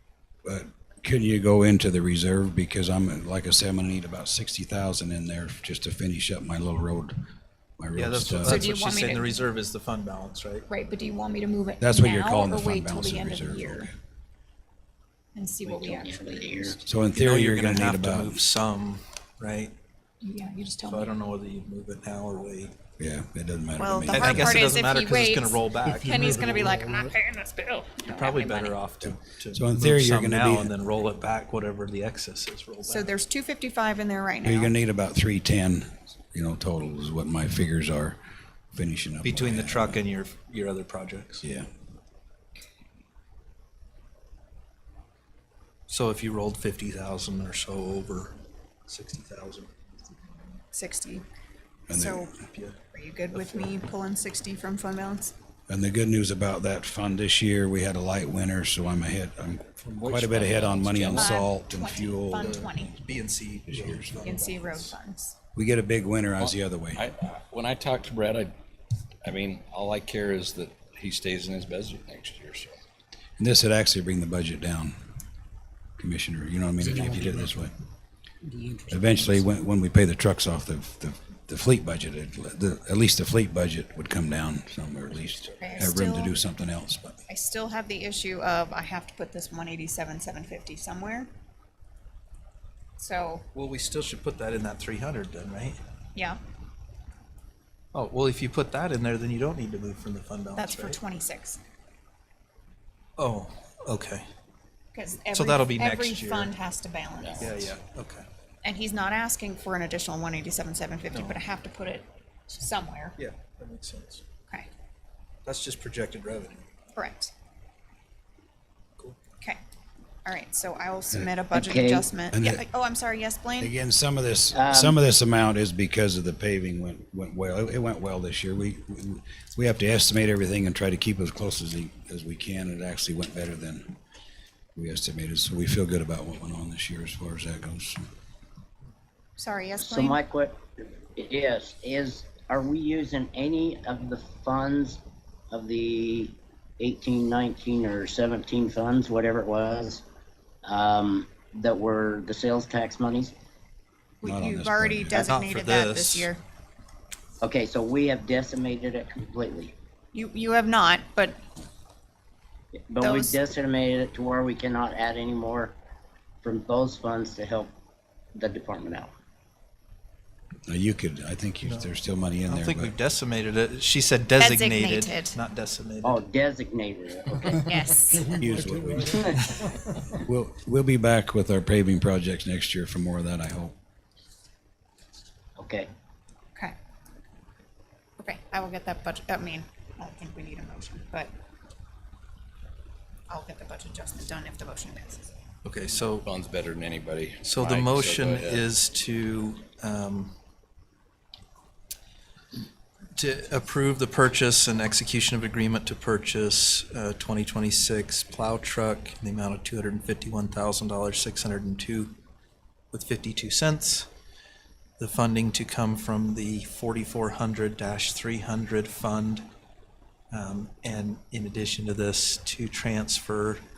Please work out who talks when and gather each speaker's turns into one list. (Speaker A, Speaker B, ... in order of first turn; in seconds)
Speaker A: 0.4-7.2, 7.8-8.7, 11.8-13.9, 16.8-18.4, 23.0-24.7, 29.5-30.7, 34.4-38.2, 38.7-40.0, 41.4-41.7, 51.9-52.3, 55.7-62.7, 63.7-64.3, 65.5-67.0, 73.4-74.9, 76.0-77.7, 78.9-87.2, 122.3-122.6, 123.6-134.0, 134.7-138.0, 154.2-155.2, 170.7-172.9, 178.3-179.5, 180.1-183.7
Speaker B: 7.9-10.7, 17.1-19.7, 20.8-22.7, 24.1-26.6, 28.0-33.1, 39.2-41.4, 45.9-49.7, 52.5-52.8, 53.3-53.7, 62.4-65.0, 85.2-85.8, 93.5-95.8, 97.9-101.0, 103.2-104.2, 105.3-106.5, 107.4-108.2, 111.1-111.4, 113.2-114.2, 115.4-116.7, 155.1-156.3, 171.6-171.9, 172.4-176.2, 195.6-196.3, 197.4-200.3, 203.1-212.1, 212.9-214.1, 215.0-219.4, 220.3-223.6
Speaker C: 8.4-9.4, 10.7-13.9, 15.3-16.8, 20.2-21.1, 23.8-28.8, 32.9-34.7, 50.7-51.2, 51.9-52.3, 52.9-55.3, 61.1-62.9, 64.2-65.3, 85.6-86.3, 87.3-91.3, 93.0-93.4, 100.5-101.6, 104.9-107.7, 108.6-113.2, 116.9-117.3, 120.2-123.7, 139.4-140.2, 154.2-156.4, 160.1-161.3, 163.0-163.4, 174.4-175.4, 177.5-178.4, 188.2-191.3, 193.3-195.2
Speaker D: 15.6-16.8, 121.5-122.1, 124.5-124.9, 139.8-140.6, 141.2-145.0, 145.5-150.0, 150.6-153.3, 157.4-159.7, 162.9-165.7, 166.4-167.7, 168.3-169.1, 176.0-177.7, 179.1-179.4, 185.6-185.9
Speaker E: 59.9-61.4, 66.4-68.5, 69.2-72.8, 107.2-107.5, 196.2-198.7